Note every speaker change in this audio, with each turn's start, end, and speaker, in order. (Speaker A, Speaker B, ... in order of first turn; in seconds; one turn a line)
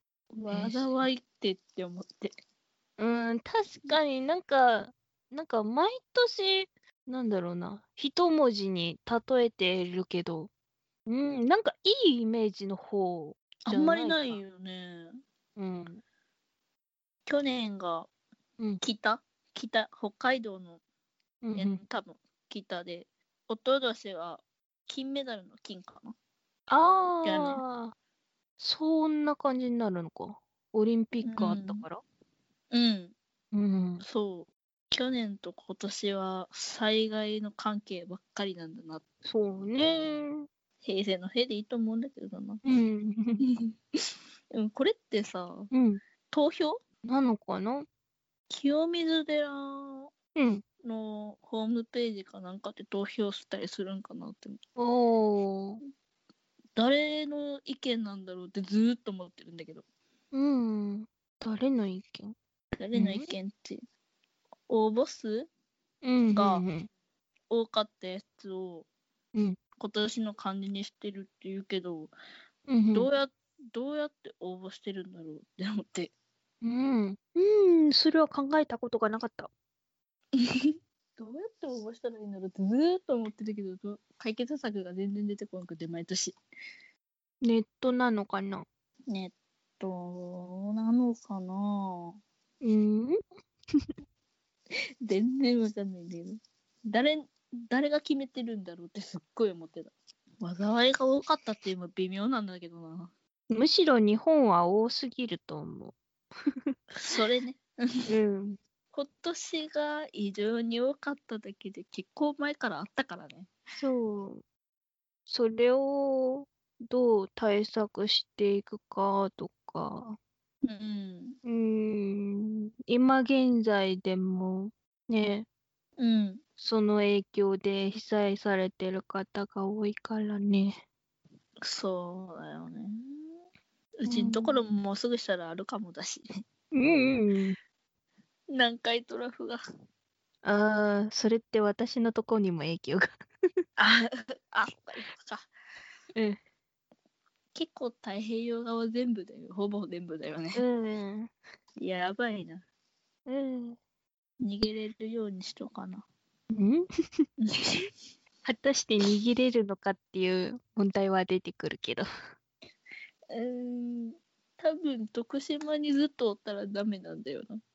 Speaker A: 0.3-2.3
Speaker B: 0.5-1.0
Speaker B: 3.0-10.5
Speaker B: 11.1-14.4
Speaker A: 13.6-15.2
Speaker B: 15.6-16.0
Speaker A: 17.2-18.1
Speaker A: 18.8-20.8
Speaker B: 21.4-21.8
Speaker A: 21.5-26.1
Speaker B: 26.7-27.9
Speaker A: 27.2-27.6
Speaker B: 28.6-32.0
Speaker A: 31.2-31.8
Speaker A: 32.7-33.1
Speaker B: 33.5-34.0
Speaker A: 34.0-39.0
Speaker B: 39.2-40.5
Speaker A: 40.8-42.6
Speaker B: 42.6-43.4
Speaker A: 43.4-43.7
Speaker A: 44.5-45.7
Speaker B: 45.7-46.0
Speaker A: 46.3-46.8
Speaker B: 47.0-47.9
Speaker A: 48.5-50.1
Speaker B: 50.4-50.6
Speaker A: 50.8-54.6
Speaker B: 54.8-55.8
Speaker A: 56.8-59.8
Speaker B: 60.3-62.3
Speaker A: 62.8-63.8
Speaker B: 62.9-63.2
Speaker A: 64.7-65.5
Speaker B: 66.0-66.9
Speaker A: 66.3-66.6
Speaker A: 67.5-68.9
Speaker A: 69.8-72.1
Speaker B: 72.7-73.1
Speaker A: 72.9-76.1
Speaker B: 76.6-79.5
Speaker A: 80.3-86.3
Speaker B: 87.4-88.6
Speaker A: 89.1-92.2
Speaker B: 92.6-93.2
Speaker A: 95.0-103.1
Speaker B: 103.5-106.0
Speaker B: 106.5-106.7
Speaker A: 107.0-108.0
Speaker B: 108.1-108.6
Speaker A: 108.9-113.5
Speaker B: 113.8-114.4
Speaker B: 115.3-120.2
Speaker A: 120.6-121.4
Speaker B: 121.4-125.5
Speaker A: 126.0-126.4
Speaker B: 126.6-130.8
Speaker A: 131.6-133.3
Speaker A: 134.0-136.3
Speaker B: 134.1-134.6
Speaker B: 136.7-137.6
Speaker A: 138.5-139.6
Speaker B: 140.4-143.1
Speaker A: 143.8-145.5
Speaker A: 147.5-150.6
Speaker B: 150.5-151.3
Speaker A: 151.8-152.6
Speaker B: 153.3-153.8
Speaker A: 154.4-156.0
Speaker B: 156.5-156.8
Speaker A: 157.4-157.9
Speaker B: 158.4-162.1
Speaker A: 163.3-167.6